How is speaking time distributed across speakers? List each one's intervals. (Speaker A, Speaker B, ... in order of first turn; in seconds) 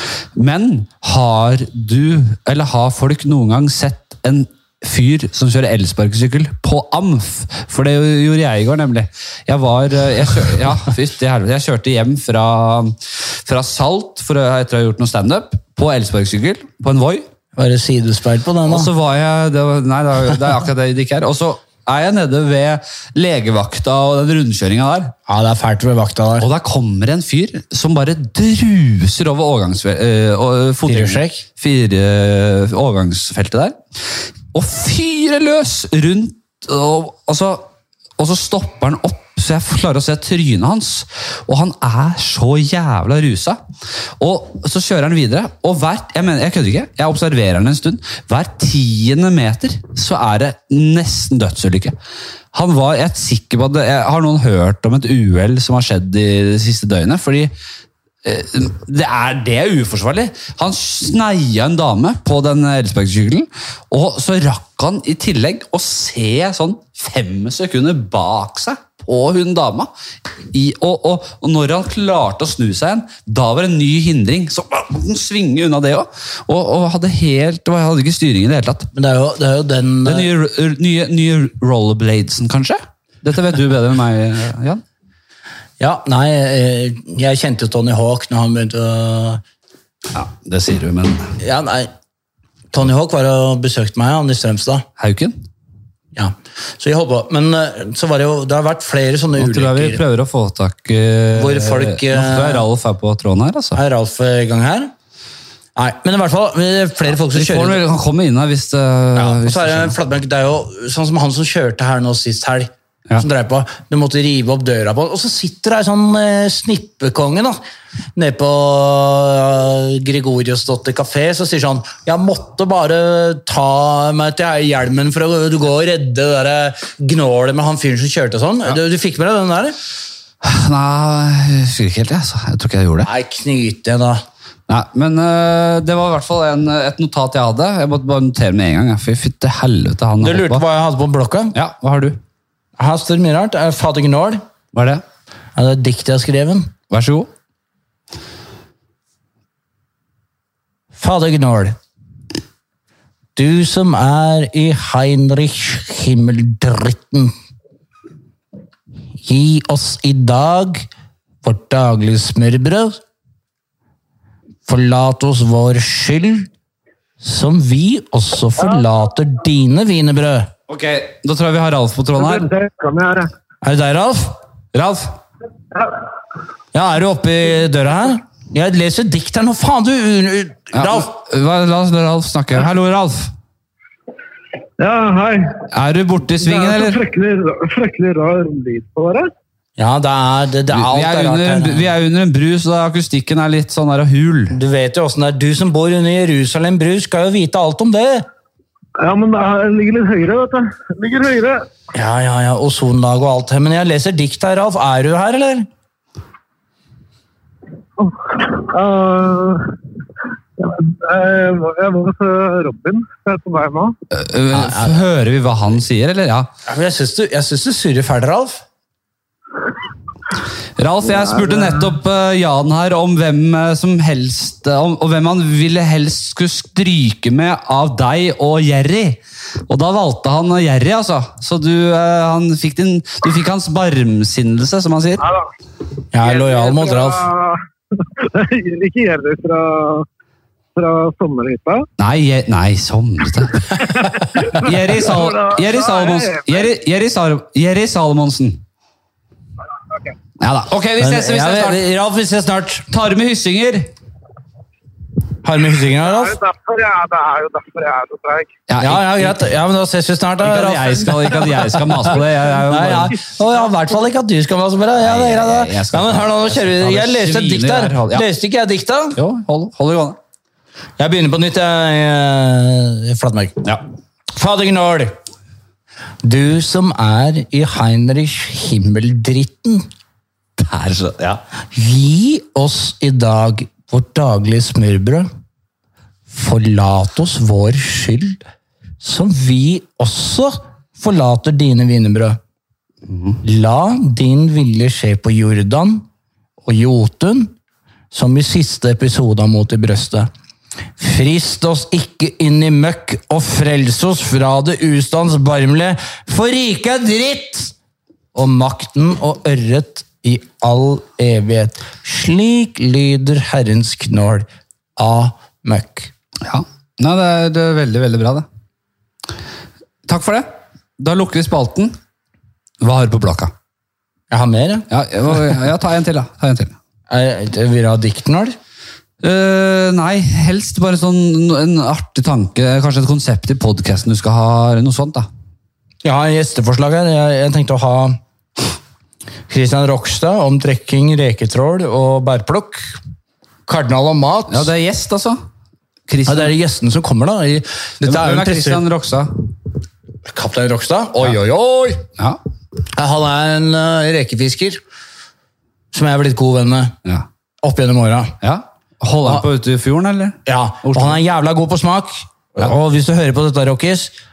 Speaker A: 0.3-17.3, 18.6-25.1, 26.4-37.7, 38.2-43.6, 44.2-51.9, 52.5-57.5, 58.2-69.9, 70.5-78.9, 80.0-84.8, 90.1-91.3, 95.0-95.4, 99.4-103.8, 107.3-110.0, 130.4-133.1, 134.7-140.6, 141.5-142.2, 144.7-145.0, 146.9-147.3, 170.7-172.5, 174.7-175.2, 180.7-183.3, 185.7-187.0, 190.7-194.6, 214.1-216.5, 220.8-235.2, 242.0-248.6, 250.4-251.8, 252.9-253.9, 258.7-259.4, 260.4-263.2, 265.0-268.3, 269.1-270.2, 280.6-281.4, 293.1-293.4, 316.4-318.4, 320.1-321.9, 322.8-323.5, 324.9-326.7, 329.2-335.3, 344.5-345.4, 346.1-346.5, 348.0-349.3, 358.4-361.2
Speaker B: 17.6-18.9, 25.3-26.5, 30.9-31.4, 78.9-80.3, 85.8-89.4, 91.4-91.9, 92.7-94.8, 96.1-100.0, 101.3-102.7, 103.7-104.9, 105.8-107.8, 109.1-117.6, 118.1-129.8, 133.0-134.2, 140.2-141.5, 142.8-144.4, 145.6-146.7, 150.9-151.8, 153.3-157.3, 159.2-160.8, 161.4-163.0, 164.7-166.5, 167.2-170.5, 173.6-174.3, 176.7-181.1, 189.8-191.9, 194.5-198.2, 201.9-205.7, 214.5-215.0, 216.7-218.6, 236.1-237.2, 251.0-252.9, 255.4-256.4, 258.8-269.2, 271.0-273.6, 274.3-275.2, 276.2-279.9, 281.7-285.3, 286.3-288.4, 289.0-292.4, 293.4-296.1, 296.6-297.5, 298.1-300.3, 301.0-307.7, 308.3-316.1, 324.3-324.9, 327.1-328.6, 336.0-338.2, 339.5-343.0, 343.6-344.7, 346.2-348.8, 350.2-352.0, 352.9-354.8, 355.9-356.9, 357.6-358.4, 360.4-364.1
Speaker C: 172.2-173.3, 184.8-185.7, 186.4-189.3, 199.0-201.6, 208.0-209.7, 210.6-213.9, 236.2-240.1, 240.7-241.9, 243.9-246.7, 256.0-258.5